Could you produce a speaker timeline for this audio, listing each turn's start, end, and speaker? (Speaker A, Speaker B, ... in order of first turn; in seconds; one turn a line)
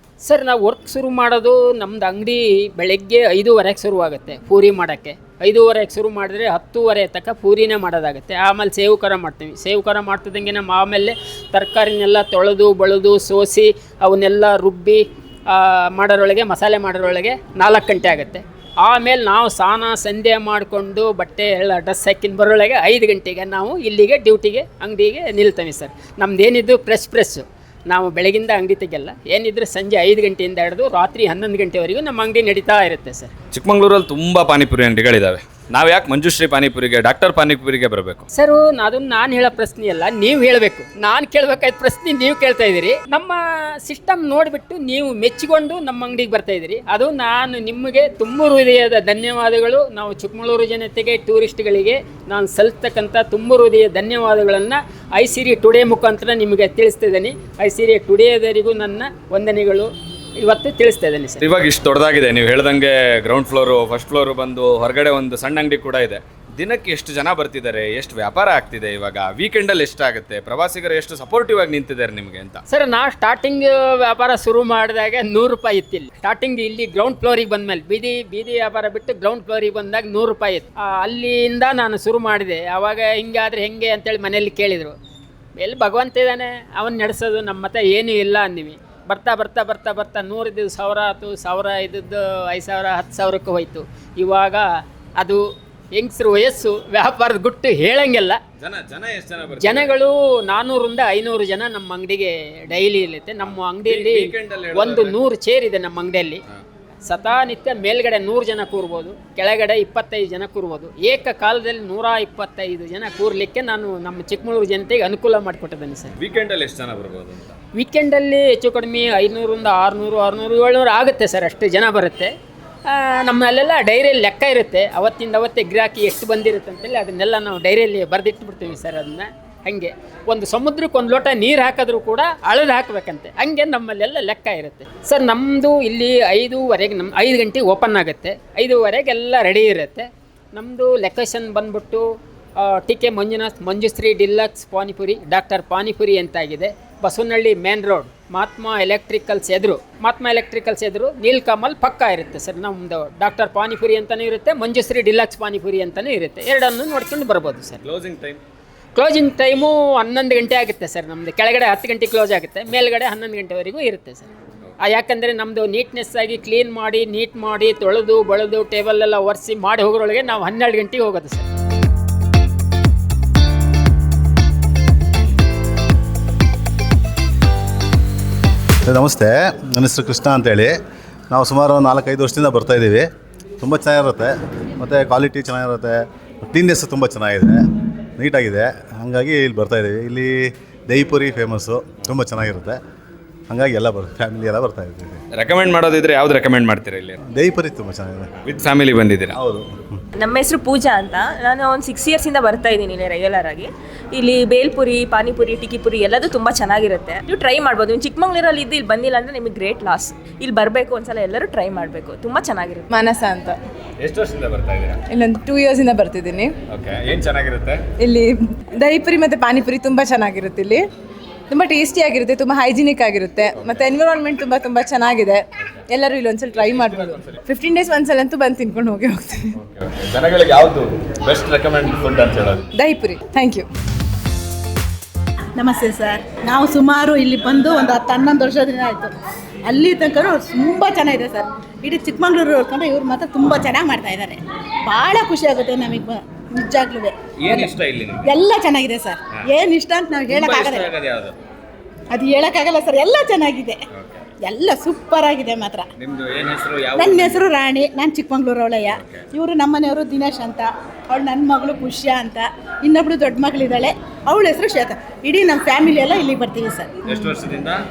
Speaker A: 0.2-33.3
Speaker B: 33.5-38.3
Speaker A: 38.3-61.4
Speaker B: 61.4-72.6
Speaker A: 72.7-84.9
Speaker A: 85.6-95.4
Speaker A: 95.9-98.4
Speaker B: 98.6-99.9
Speaker A: 99.6-106.4
Speaker B: 103.5-105.2
Speaker A: 107.0-116.1
Speaker B: 116.2-117.5
Speaker A: 117.7-122.3
Speaker A: 122.9-142.0
Speaker A: 142.6-157.8
Speaker B: 157.8-158.4
Speaker A: 158.9-164.3
Speaker A: 164.8-171.5
Speaker C: 178.8-180.8
Speaker C: 181.3-183.1
Speaker C: 183.6-187.6
Speaker C: 188.2-192.8
Speaker C: 193.5-195.2
Speaker B: 195.3-197.2
Speaker C: 197.3-198.3
Speaker B: 198.4-199.3
Speaker C: 199.3-199.9
Speaker D: 200.2-212.9
Speaker E: 212.9-213.6
Speaker B: 214.0-215.0
Speaker E: 215.1-216.5
Speaker B: 216.7-217.9
Speaker E: 218.0-220.8
Speaker E: 221.5-229.5
Speaker B: 223.6-223.8
Speaker B: 226.6-227.4
Speaker B: 229.6-232.7
Speaker E: 232.8-233.7
Speaker F: 235.6-239.1
Speaker F: 239.7-247.7
Speaker B: 247.4-248.3
Speaker F: 248.2-250.9
Speaker B: 250.3-251.3
Speaker F: 252.1-253.8
Speaker B: 253.9-254.2
Speaker F: 254.4-255.9
Speaker B: 256.0-257.4
Speaker F: 257.0-266.9
Speaker B: 258.9-259.3
Speaker B: 267.1-267.8